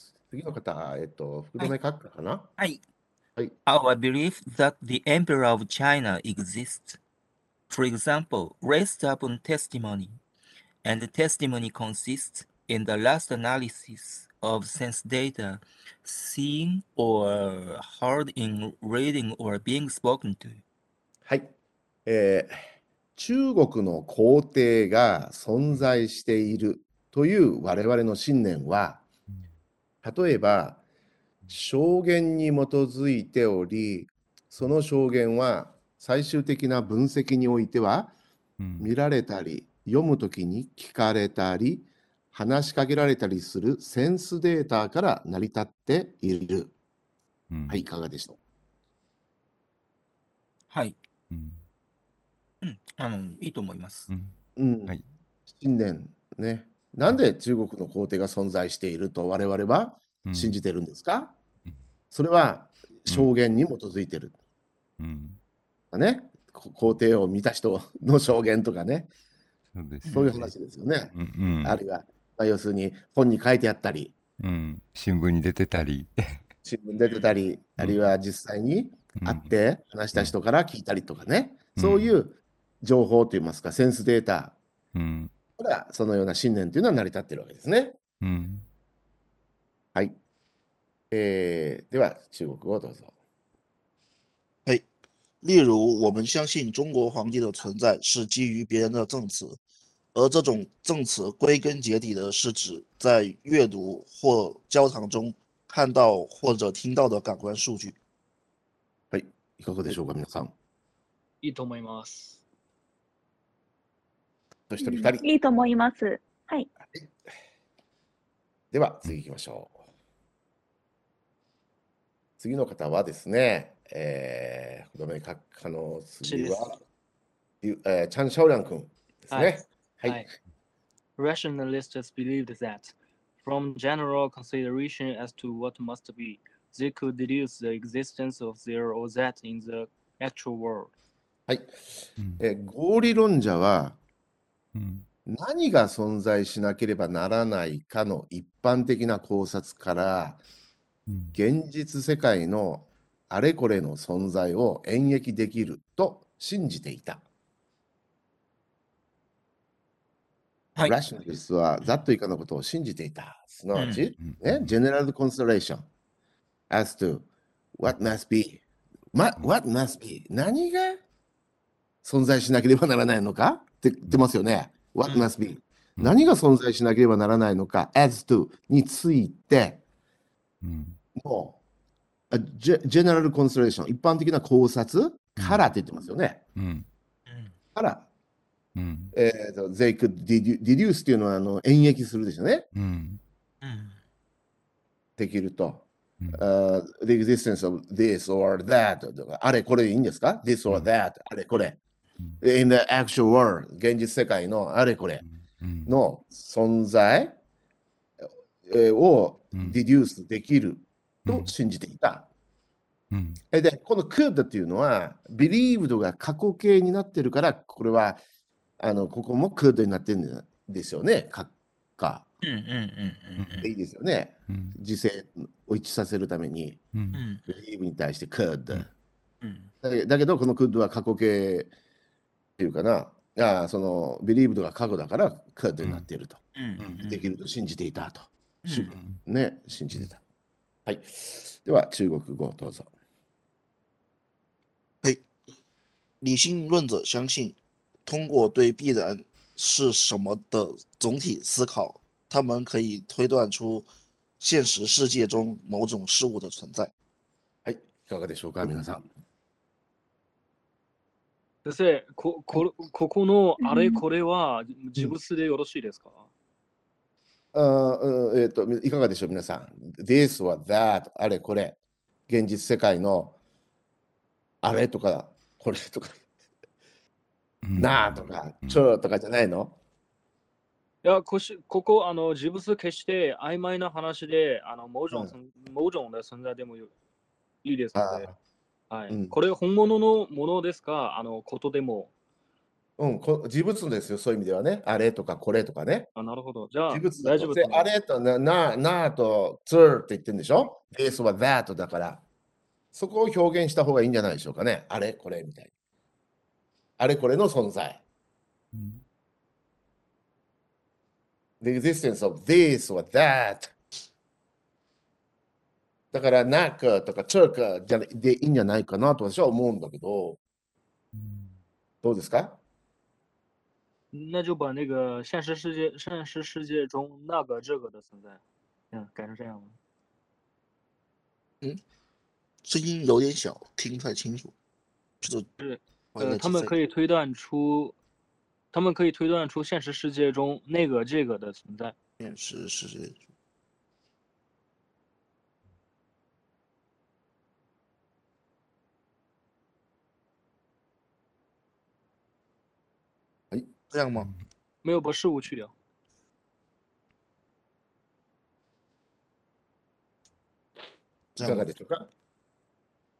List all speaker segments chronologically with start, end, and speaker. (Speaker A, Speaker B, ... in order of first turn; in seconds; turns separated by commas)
Speaker A: 0.3-2.5, Speaker B: 3.6-7.0, Speaker B: 7.7-10.2, Speaker B: 10.8-20.6, Speaker A: 21.2-21.5, Speaker A: 22.1-22.6, Speaker A: 23.1-29.0, Speaker A: 30.0-30.8, Speaker A: 31.5-38.1, Speaker C: 38.6-38.9, Speaker A: 38.8-46.7, Speaker C: 47.5-47.8, Speaker A: 47.7-48.4, Speaker B: 50.7-51.0, Speaker C: 51.3-51.6, Speaker B: 52.6-54.1, Speaker A: 54.6-54.9, Speaker A: 55.5-61.3, Speaker C: 60.3-60.6, Speaker A: 62.1-64.4, Speaker C: 65.0-65.4, Speaker A: 65.9-69.1, Speaker C: 69.7-70.5, Speaker B: 70.0-70.3, Speaker A: 70.1-71.1, Speaker C: 71.1-71.8, Speaker A: 71.6-74.1, Speaker C: 74.4-76.4, Speaker A: 76.6-84.6, Speaker B: 77.0-77.3, Speaker C: 79.2-79.5, Speaker C: 81.8-82.2, Speaker C: 84.9-85.3, Speaker A: 85.6-88.0, Speaker C: 88.2-88.6, Speaker A: 91.1-93.1, Speaker D: 95.4-99.6, Speaker D: 100.1-108.0, Speaker A: 109.1-110.5, Speaker E: 111.4-112.4, Speaker A: 114.7-115.3, Speaker F: 114.8-116.7, Speaker A: 118.7-119.8, Speaker A: 122.4-126.8, Speaker E: 126.2-126.8, Speaker A: 127.6-130.2, Speaker E: 129.3-130.3, Speaker E: 131.2-140.9, Speaker A: 141.5-141.7, Speaker A: 142.4-144.0, Speaker C: 144.7-145.0, Speaker A: 145.3-150.4, Speaker C: 151.1-151.3, Speaker A: 151.3-157.2, Speaker A: 160.8-165.8, Speaker B: 163.7-164.1, Speaker C: 164.2-164.7, Speaker A: 166.7-168.6, Speaker A: 169.1-171.0, Speaker A: 172.0-179.8, Speaker C: 180.6-181.0, Speaker A: 181.2-181.6, Speaker A: 182.3-186.4, Speaker C: 185.4-185.6, Speaker C: 186.6-186.8, Speaker B: 187.3-187.5, Speaker A: 187.7-188.1, Speaker C: 188.8-189.1, Speaker A: 189.1-192.6, Speaker C: 192.7-193.2, Speaker B: 193.6-193.9, Speaker A: 195.2-201.8, Speaker A: 202.4-205.2, Speaker C: 205.2-205.9, Speaker A: 205.8-207.3, Speaker A: 208.7-212.3, Speaker C: 213.1-213.4, Speaker A: 213.5-218.2, Speaker A: 218.8-222.3, Speaker B: 222.4-223.7, Speaker A: 223.6-226.8, Speaker C: 226.9-227.2, Speaker B: 227.1-227.4, Speaker A: 227.4-228.9, Speaker B: 229.4-229.7, Speaker A: 229.8-231.7, Speaker A: 232.6-236.4, Speaker B: 236.5-237.2, Speaker A: 237.0-240.2, Speaker B: 238.6-238.9, Speaker C: 238.9-239.2, Speaker A: 240.8-242.9, Speaker D: 246.2-253.9, Speaker D: 254.4-256.9, Speaker A: 257.6-259.1, Speaker E: 261.6-266.2, Speaker F: 263.6-264.0, Speaker A: 267.5-271.8, Speaker A: 272.3-273.4, Speaker A: 274.6-276.2, Speaker C: 277.6-278.9, Speaker A: 277.8-279.8, Speaker E: 281.0-286.9, Speaker E: 287.6-288.3, Speaker A: 287.9-288.3, Speaker E: 288.9-292.1, Speaker A: 289.1-289.4, Speaker A: 293.0-296.1, Speaker E: 296.1-297.9, Speaker A: 296.9-302.2, Speaker A: 302.9-305.7, Speaker A: 307.0-308.0, Speaker C: 308.7-309.0, Speaker A: 311.6-313.7, Speaker A: 316.1-320.4, Speaker C: 321.2-321.5, Speaker A: 322.0-322.6, Speaker E: 324.1-329.8, Speaker D: 332.6-334.5, Speaker D: 335.2-335.5, Speaker E: 335.6-337.9, Speaker D: 336.1-336.7, Speaker E: 338.7-341.9, Speaker D: 342.2-343.2, Speaker D: 353.9-354.3, Speaker E: 354.8-355.7, Speaker D: 361.3-361.7, Speaker A: 361.4-362.1